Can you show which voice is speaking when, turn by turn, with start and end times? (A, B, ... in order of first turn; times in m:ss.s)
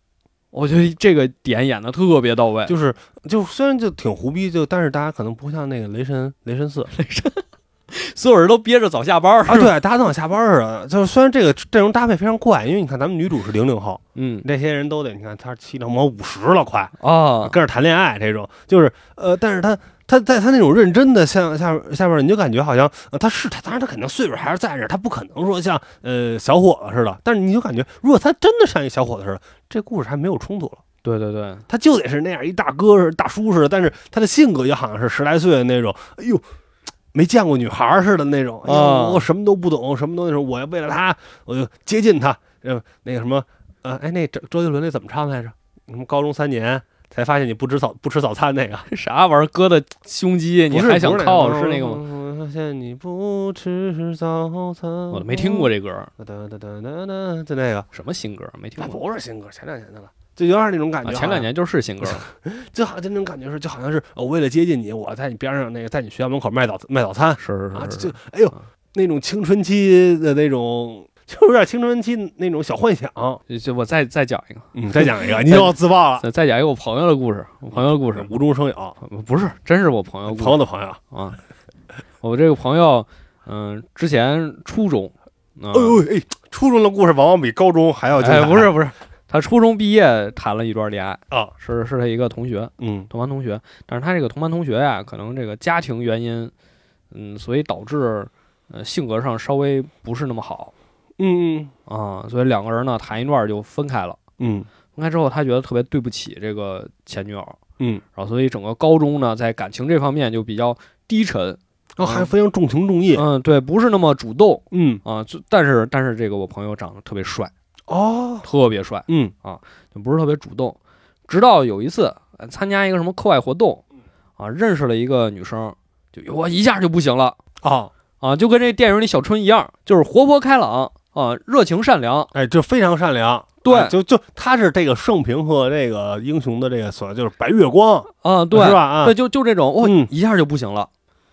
0:00.5-0:02.7 A
0:02.7-0:06.9 B
0:06.9-0:09.8 A
0:09.5-0:30.8 B
0:14.1-0:14.4 A
0:17.0-0:17.6 A
0:31.0-0:31.6 A
0:31.7-0:36.4 B
0:37.1-0:48.8 B
0:38.6-0:39.2 A
0:48.9-0:52.0 A
0:50.7-0:57.9 B
0:55.1-0:56.1 A
0:57.9-0:59.0 A
0:58.8-1:01.5 B
1:01.0-1:02.2 A
1:02.0-1:13.4 B
1:07.4-1:08.6 A
1:13.5-1:18.3 A
1:14.7-1:16.2 B
1:17.7-1:19.0 B
1:19.0-1:20.6 A
1:20.3-1:21.0 B
1:21.1-1:21.4 A
1:22.2-1:26.0 A
1:25.7-1:28.7 B
1:28.2-1:36.5 A
1:32.8-1:33.1 B
1:37.1-1:40.7 A
1:41.2-1:41.7 B
1:41.9-1:44.2 A
1:44.4-1:44.7 B
1:44.9-1:47.6 A
1:48.2-1:52.3 A
1:52.0-1:53.2 B
1:53.1-1:57.5 A
1:54.7-1:55.0 B
1:57.9-1:58.5 B
1:58.4-2:03.8 A
1:59.1-1:59.3 B
2:04.4-2:07.4 A
2:07.6-2:07.9 B
2:08.2-2:12.3 A
2:12.3-2:19.2 B
2:13.6-2:13.9 A
2:18.2-2:20.9 A
2:19.8-2:20.1 B